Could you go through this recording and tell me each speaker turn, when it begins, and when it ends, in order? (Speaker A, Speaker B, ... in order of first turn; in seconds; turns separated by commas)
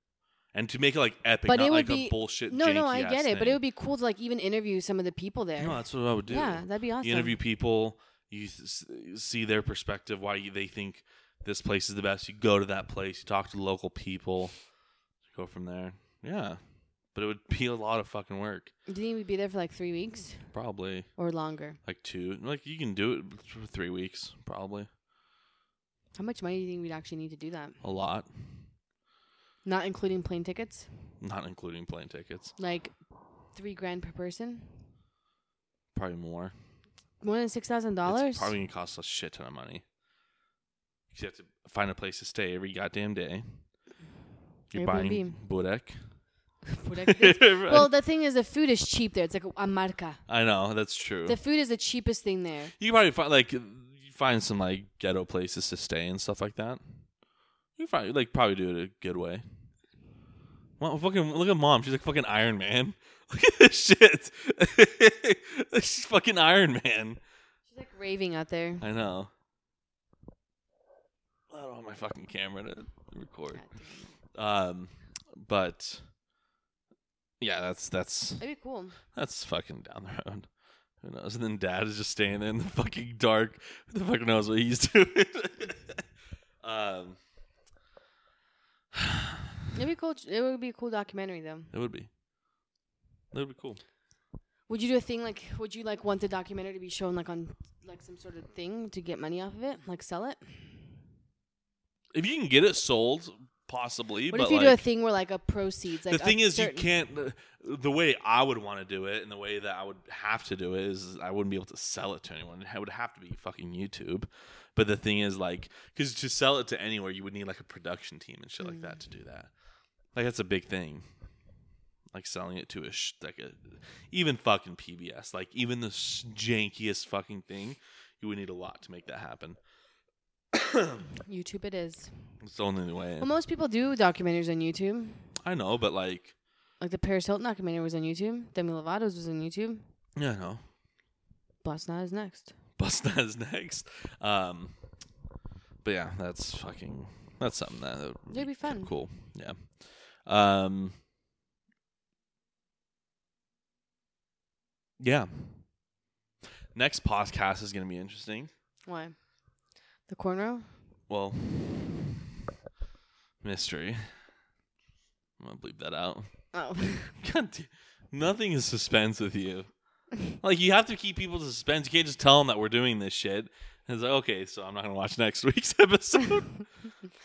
Speaker A: 0.5-3.6, Speaker B: 1.5-7.4, Speaker A: 5.6-14.6, Speaker A: 15.3-16.6, Speaker A: 17.1-18.7, Speaker B: 18.9-20.4, Speaker A: 20.5-21.1, Speaker B: 21.2-21.8, Speaker A: 21.9-24.9, Speaker B: 26.2-27.8, Speaker A: 27.8-28.3, Speaker B: 29.6-30.9, Speaker A: 31.2-32.5, Speaker B: 32.6-32.9, Speaker B: 33.5-34.7, Speaker A: 35.9-36.5, Speaker B: 37.2-38.5, Speaker A: 38.1-39.8, Speaker A: 41.1-43.6, Speaker A: 44.7-46.0, Speaker B: 44.8-45.4, Speaker B: 46.7-50.2, Speaker A: 47.0-47.9, Speaker A: 50.3-51.4, Speaker B: 51.3-52.7, Speaker A: 52.8-56.8, Speaker A: 57.8-59.4, Speaker A: 60.8-67.2, Speaker B: 67.7-68.8, Speaker A: 68.8-69.3, Speaker A: 71.5-73.6, Speaker B: 73.5-74.1, Speaker A: 74.3-76.0, Speaker A: 77.4-78.4, Speaker B: 78.4-79.0, Speaker A: 79.1-80.5, Speaker A: 81.0-86.0, Speaker A: 86.6-87.2, Speaker A: 88.9-89.3, Speaker B: 89.7-91.7, Speaker A: 91.7-92.1, Speaker A: 93.3-93.8, Speaker B: 94.7-100.7, Speaker A: 102.1-104.8, Speaker B: 104.3-106.9, Speaker A: 106.1-119.5, Speaker A: 120.1-121.1, Speaker A: 122.1-129.6, Speaker A: 130.5-131.0, Speaker B: 131.3-132.1, Speaker A: 132.4-133.3, Speaker B: 133.2-135.3, Speaker A: 135.4-136.3, Speaker B: 136.8-139.8, Speaker A: 140.2-140.6, Speaker B: 141.6-142.5, Speaker A: 142.8-144.7, Speaker A: 145.8-151.0, Speaker B: 148.3-148.9, Speaker A: 155.0-155.7, Speaker A: 156.8-158.5, Speaker B: 158.9-159.2, Speaker B: 160.1-160.7, Speaker A: 161.1-162.0, Speaker A: 163.4-164.1, Speaker A: 165.4-166.3, Speaker B: 166.5-167.1, Speaker A: 167.2-169.7, Speaker A: 170.4-176.5